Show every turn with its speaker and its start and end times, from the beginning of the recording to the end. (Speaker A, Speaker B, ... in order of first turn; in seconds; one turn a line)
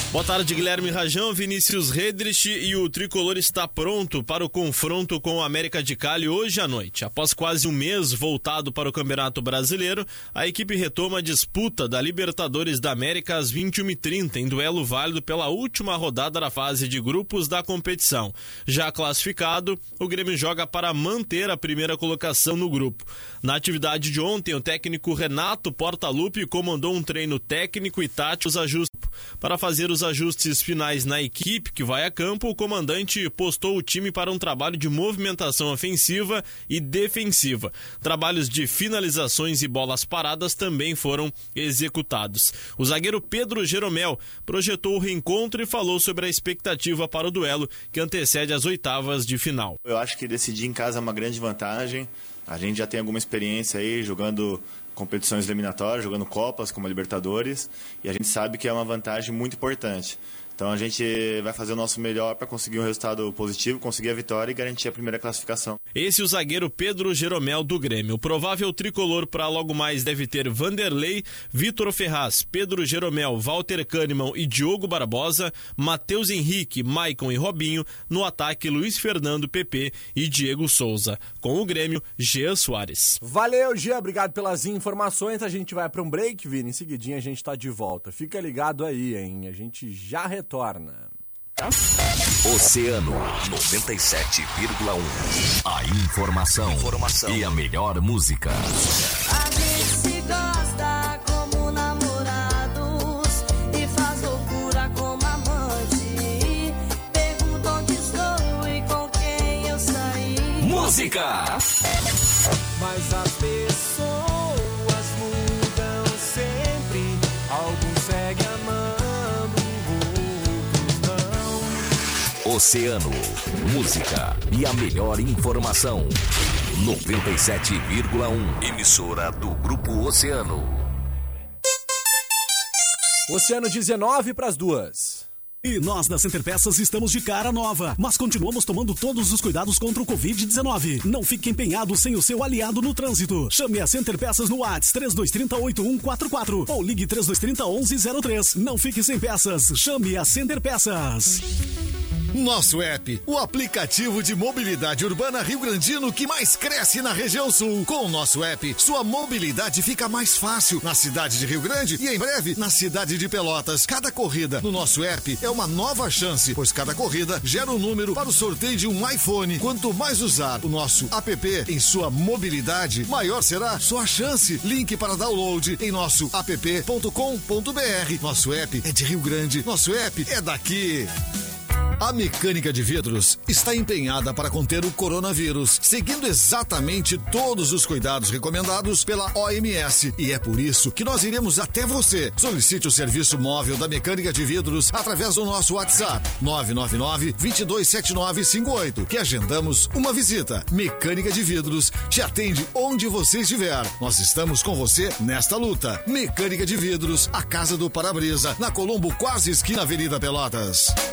Speaker A: 0.1-49.8
Speaker B: 49.9-65.8
Speaker A: 65.9-83.2
Speaker C: 83.2-91.1
Speaker D: 92.4-98.7
Speaker E: 99.3-110.9
Speaker D: 110.6-111.6
Speaker F: 112.8-121.8
Speaker D: 122.4-126.2
Speaker D: 126.7-130.8
Speaker C: 133.3-135.3
Speaker G: 135.6-151.4
Speaker H: 152.3-181.1
Speaker H: 182.0-210.9